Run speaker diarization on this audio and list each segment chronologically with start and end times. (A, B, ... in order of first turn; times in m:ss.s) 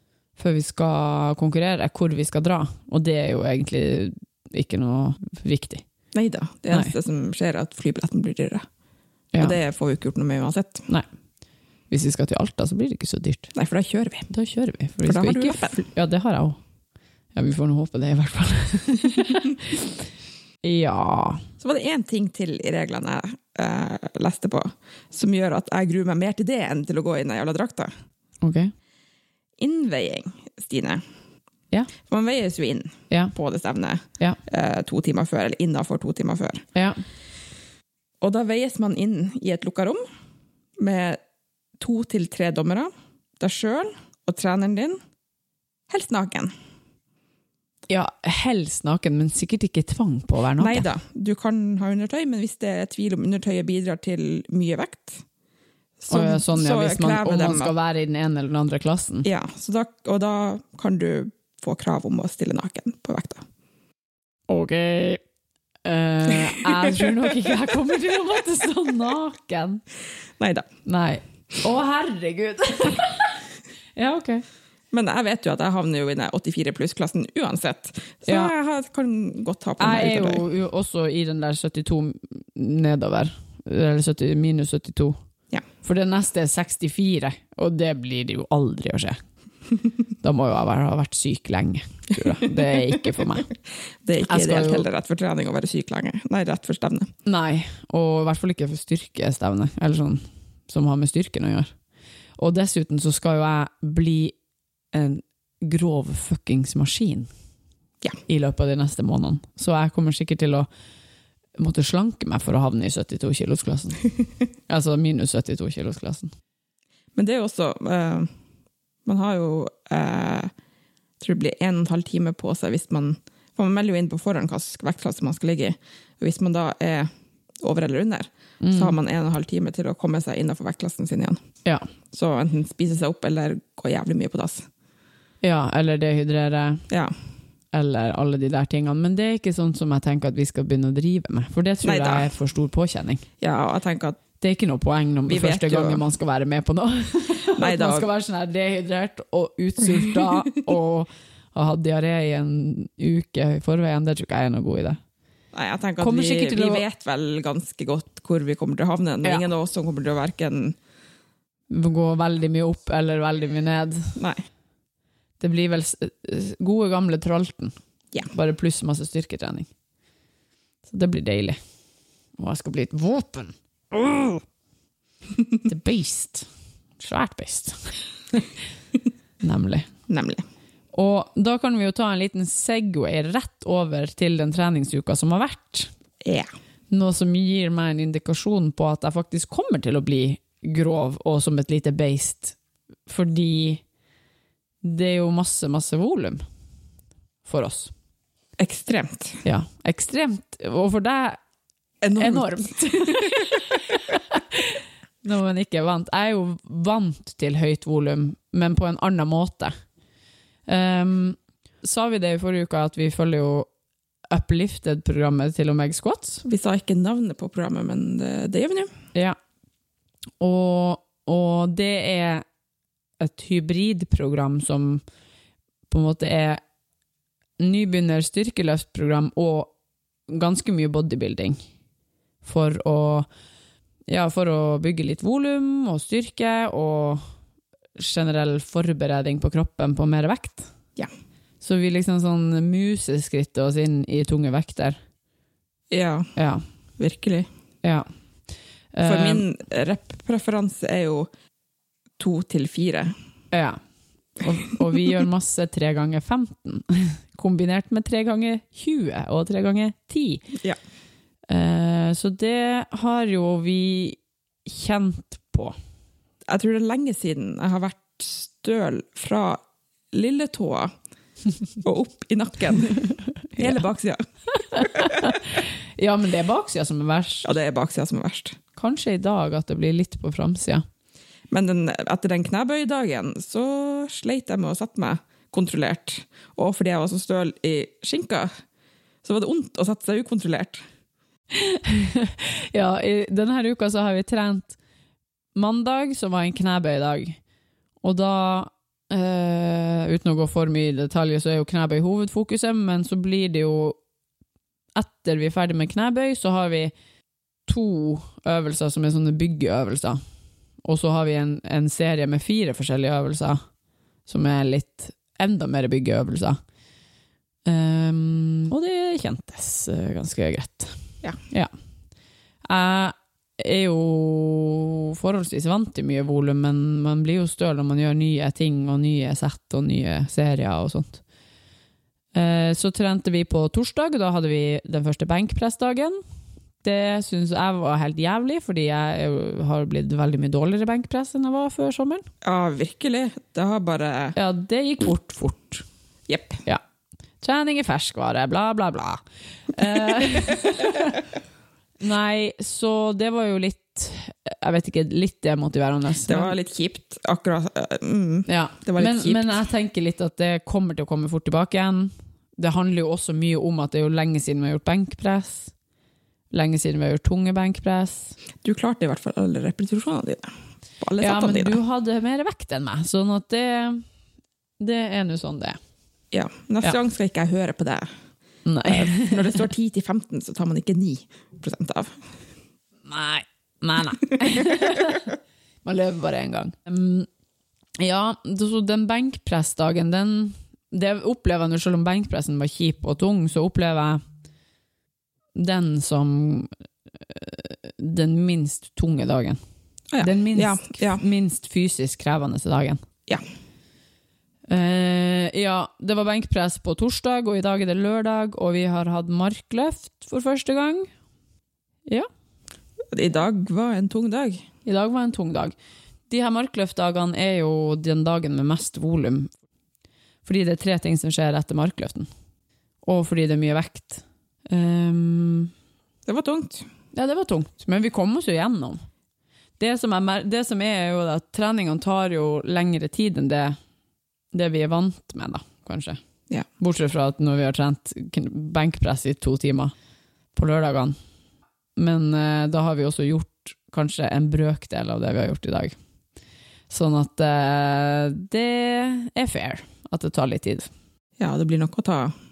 0:00.4-0:05.8 A
0:06.1-0:08.7 B
0:09.4-0:10.9 B
0:11.9-0:13.5 A
0:13.5-0:14.3 B
0:14.3-0:16.6 A
0:15.0-0:15.8 B
0:17.3-0:20.0 A
0:20.6-0:21.4 A
0:21.6-0:27.9 B
0:28.4-0:28.7 A
0:29.6-0:31.0 B
0:32.1-0:36.7 B
0:33.1-0:33.4 A
0:36.8-0:37.0 A
0:38.2-0:40.0 B
0:40.8-0:41.2 B
0:41.8-0:45.0 B
0:45.9-0:46.5 B
0:47.9-0:50.9 A
0:50.6-0:55.2 B
0:56.0-0:57.7 B
0:56.1-0:59.3 A
0:59.2-1:03.4 B
1:04.5-1:05.2 A
1:05.8-1:09.8 A
1:10.4-1:10.7 B
1:10.8-1:14.4 A
1:14.9-1:20.4 B
1:18.3-1:18.5 A
1:19.8-1:25.2 A
1:25.8-1:29.2 A
1:30.2-1:33.5 A
1:34.0-1:37.1 B
1:34.2-1:34.9 A
1:37.3-1:41.7 A
1:42.4-1:44.4 A
1:44.9-1:47.3 A
1:48.3-1:50.7 A
1:51.6-1:54.1 A
1:54.7-1:56.3 A
1:57.2-1:58.3 B
1:59.0-2:00.5 B
2:01.2-2:07.1 B
2:07.6-2:11.4 B
2:08.6-2:09.0 A
2:12.1-2:14.7 B
2:15.4-2:16.8 A
2:17.7-2:23.2 A
2:21.8-2:22.3 B
2:23.4-2:24.2 B
2:24.4-2:35.0 A
2:25.3-2:26.0 B
2:27.6-2:28.1 B
2:35.5-2:40.8 B
2:36.0-2:36.8 A
2:41.7-2:44.2 A
2:44.2-2:44.4 B
2:45.4-2:47.7 A
2:48.3-2:49.7 A
2:50.9-2:51.6 A
2:52.4-2:54.4 A
2:55.6-2:56.5 A
2:57.0-2:58.5 A
2:59.4-2:59.9 A
3:00.1-3:00.4 B
3:00.9-3:05.9 A
3:06.2-3:06.5 B
3:06.9-3:13.8 A
3:14.8-3:16.4 A
3:17.4-3:17.9 A
3:18.6-3:19.4 B
3:19.4-3:21.4 A
3:22.0-3:23.5 B
3:22.2-3:29.7 A
3:30.7-3:33.7 A
3:34.3-3:36.4 A
3:36.4-3:38.9 B
3:40.4-3:42.4 A
3:43.2-3:45.0 A
3:45.9-3:46.6 A
3:47.6-3:49.7 A
3:50.3-3:51.6 A
3:52.4-3:53.3 A
3:54.1-3:57.2 A
3:58.0-4:00.7 A
4:01.6-4:05.0 A
4:05.9-4:06.3 B
4:06.4-4:06.6 A
4:07.0-4:07.5 B
4:08.9-4:09.5 A
4:09.0-4:11.3 B
4:12.2-4:13.1 B
4:13.5-4:13.8 A
4:14.4-4:20.5 A
4:21.5-4:25.8 A
4:26.5-4:29.6 B
4:30.1-4:30.9 B
4:31.8-4:35.4 B
4:34.7-4:37.5 A
4:37.4-4:38.6 B
4:38.8-4:40.8 A
4:41.5-4:48.5 B
4:49.2-4:50.8 B
4:51.5-4:54.8 A
4:55.6-4:57.4 A
4:58.0-5:04.0 A
5:05.0-5:06.9 A
5:07.7-5:10.2 A
5:10.8-5:13.6 A
5:14.3-5:16.6 A
5:17.6-5:21.0 A
5:22.6-5:31.2 A
5:32.3-5:36.2 A
5:36.8-5:42.3 A
5:42.4-5:44.4 B
5:44.4-5:45.8 A
5:46.3-5:46.6 B
5:47.4-5:51.3 A
5:52.0-5:56.5 A
5:56.3-5:59.6 B
5:58.5-6:05.7 A
6:06.5-6:08.4 A
6:08.6-6:11.8 B
6:11.2-6:14.0 A
6:14.8-6:15.8 A
6:16.3-6:18.1 B
6:18.6-6:19.6 A
6:18.8-6:22.2 B
6:23.0-6:27.3 A
6:28.0-6:34.2 A
6:35.6-6:39.6 A
6:40.1-6:41.2 B
6:40.2-6:43.0 A
6:44.7-6:51.1 A
6:53.1-6:54.7 B
6:54.8-6:55.8 A
6:56.3-6:59.5 A
7:00.4-7:02.3 A
7:03.0-7:05.7 A
7:06.3-7:06.9 B
7:07.1-7:09.0 A
7:09.8-7:13.8 A
7:14.5-7:16.2 A
7:16.8-7:19.9 A
7:20.5-7:21.2 A
7:22.0-7:26.0 A
7:26.9-7:30.9 A
7:31.4-7:32.3 B